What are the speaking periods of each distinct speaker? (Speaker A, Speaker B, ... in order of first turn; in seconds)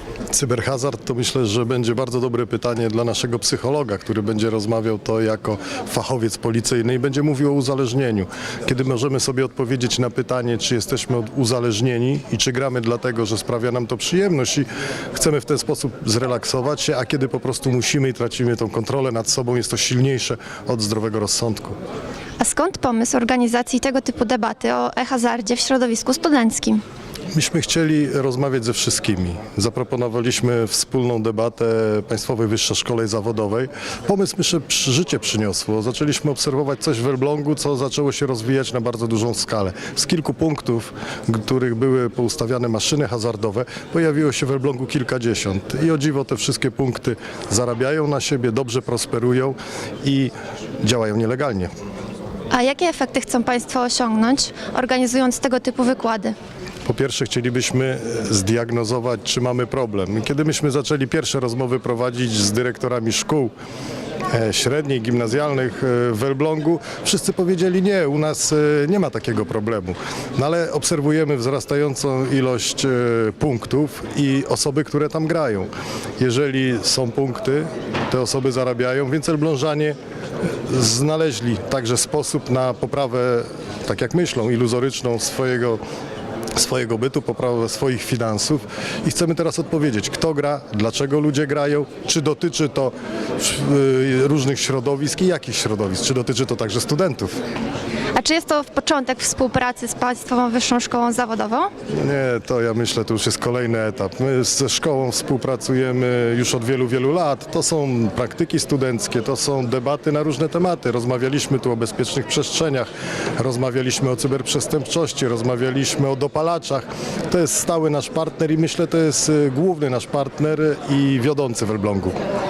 Speaker A: 0.3-21.8, 27.3-51.7, 56.8-63.5, 64.3-80.0, 80.6-85.8, 86.5-97.4, 101.9-122.2
Speaker B: 22.4-26.8, 52.5-56.3, 98.2-101.7